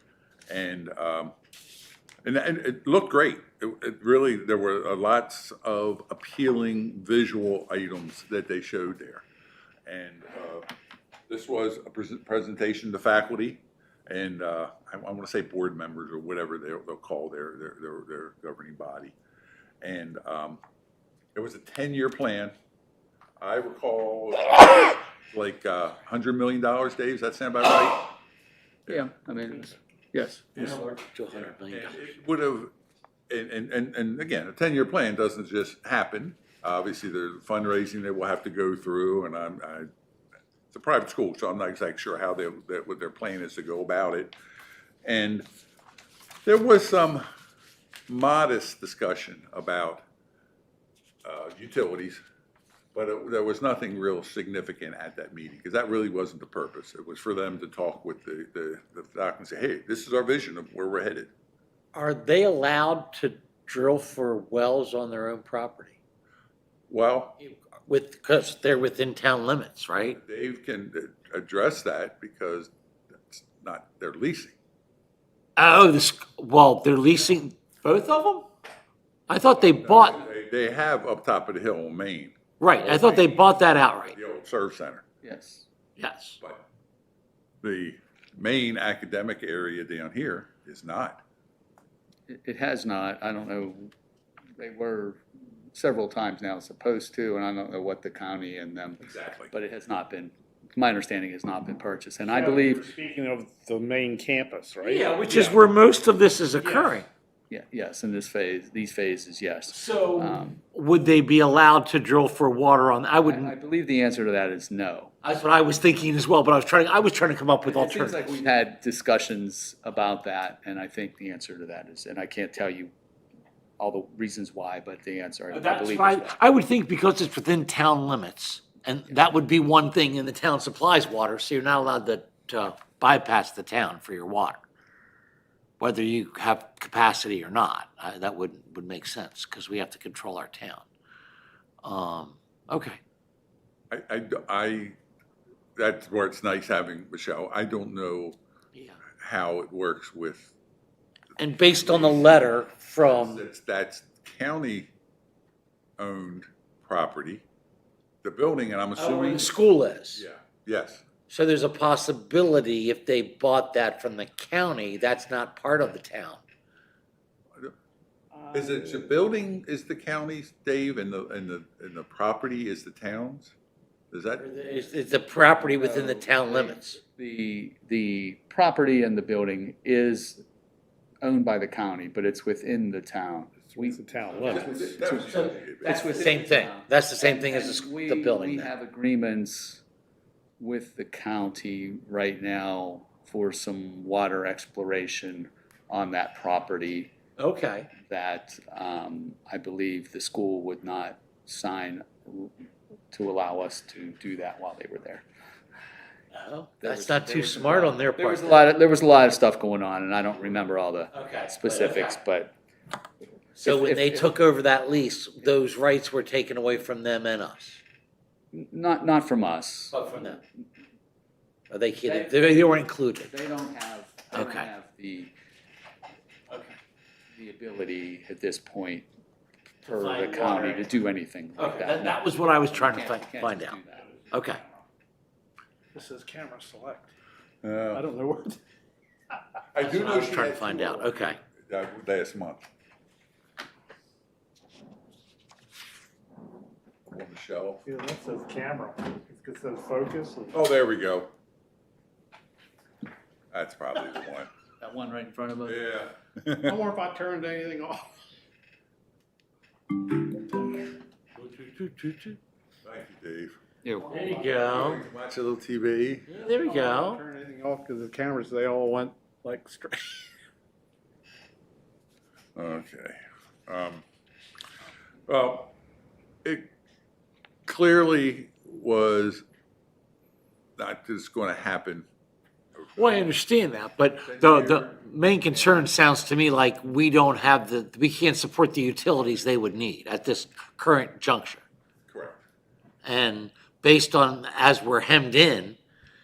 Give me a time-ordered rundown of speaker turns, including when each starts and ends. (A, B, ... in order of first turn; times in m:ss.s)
0:00.5-0:01.4 A
0:02.2-0:09.2 A
0:09.9-0:10.7 A
0:11.3-0:19.1 A
0:19.8-0:20.6 A
0:21.4-0:22.5 A
0:23.4-0:28.2 A
0:28.9-0:30.6 B
0:30.6-0:32.0 C
0:31.3-0:32.7 A
0:33.3-0:39.9 A
0:40.7-0:44.3 A
0:45.0-0:45.5 A
0:46.5-0:47.3 A
0:48.1-0:50.0 A
0:51.2-0:52.2 A
0:52.9-1:01.3 A
1:01.9-1:06.0 C
1:06.9-1:07.4 A
1:07.4-1:10.2 C
1:10.2-1:12.7 A
1:13.3-1:14.6 A
1:15.6-1:18.5 C
1:19.3-1:20.2 C
1:19.5-1:25.0 A
1:22.6-1:24.2 C
1:25.2-1:25.7 B
1:26.0-1:26.4 C
1:27.6-1:31.2 A
1:32.3-1:33.9 B
1:34.6-1:35.2 B
1:35.7-1:42.9 B
1:39.0-1:39.5 A
1:42.2-1:45.3 D
1:44.8-1:47.1 C
1:45.3-1:45.6 A
1:46.6-1:47.0 D
1:47.5-1:50.6 B
1:49.7-1:53.5 C
1:53.2-1:55.1 B
1:55.2-1:58.4 C
1:57.6-2:02.9 B
2:03.8-2:06.4 B
2:05.5-2:14.6 C
2:15.8-2:20.8 C
2:21.8-2:23.0 C
2:23.9-2:25.0 A
2:25.8-2:28.4 A
2:29.2-2:30.5 A
2:31.4-2:33.4 C
2:31.6-2:34.9 A
2:36.0-2:37.4 A
2:38.2-2:39.6 A
2:39.0-2:40.2 C
2:40.1-2:41.0 A
2:41.3-2:46.4 C
2:48.3-2:49.1 D
2:48.5-2:53.5 A
2:54.1-2:54.5 A
2:54.4-2:57.0 C
2:55.6-3:00.4 B
3:01.2-3:09.8 B
3:03.7-3:04.9 D
3:04.5-3:06.1 A
3:05.3-3:08.7 C
3:10.6-3:17.1 B
3:17.4-3:17.9 C
3:18.0-3:22.5 B
3:23.1-3:25.2 B
3:26.3-3:28.6 C
3:26.8-3:32.5 B
3:31.1-3:32.2 C
3:33.6-3:34.3 B
3:33.6-3:37.8 C
3:38.5-3:40.1 B
3:39.9-3:40.4 C
3:41.7-3:43.3 C
3:42.0-3:45.3 B
3:44.3-3:44.7 C
3:46.5-3:46.8 C
3:47.4-3:49.1 B
3:49.8-3:54.1 B
3:49.8-3:50.9 C
3:51.6-3:53.8 C
3:54.3-3:54.6 C
3:55.9-3:57.1 D
3:57.6-3:58.0 A
3:57.9-3:58.6 D
3:59.7-4:02.6 A
3:59.8-4:01.4 C
4:07.1-4:07.8 A
4:07.9-4:10.6 D
4:10.5-4:11.3 A
4:13.5-4:14.5 A
4:14.8-4:15.8 B
4:15.6-4:16.8 A
4:16.6-4:18.1 D
4:21.4-4:22.4 C
4:22.8-4:23.6 A
4:23.8-4:24.2 B
4:24.0-4:25.0 D
4:24.1-4:25.0 C
4:24.6-4:26.3 A
4:26.3-4:27.2 C
4:26.5-4:30.3 D
4:32.6-4:34.0 A
4:35.3-4:35.7 A
4:37.7-4:39.4 A
4:40.8-4:42.1 A
4:42.8-4:43.3 A
4:43.0-4:51.6 C
4:44.2-4:45.9 A
4:52.1-4:52.4 A
4:53.0-4:55.8 C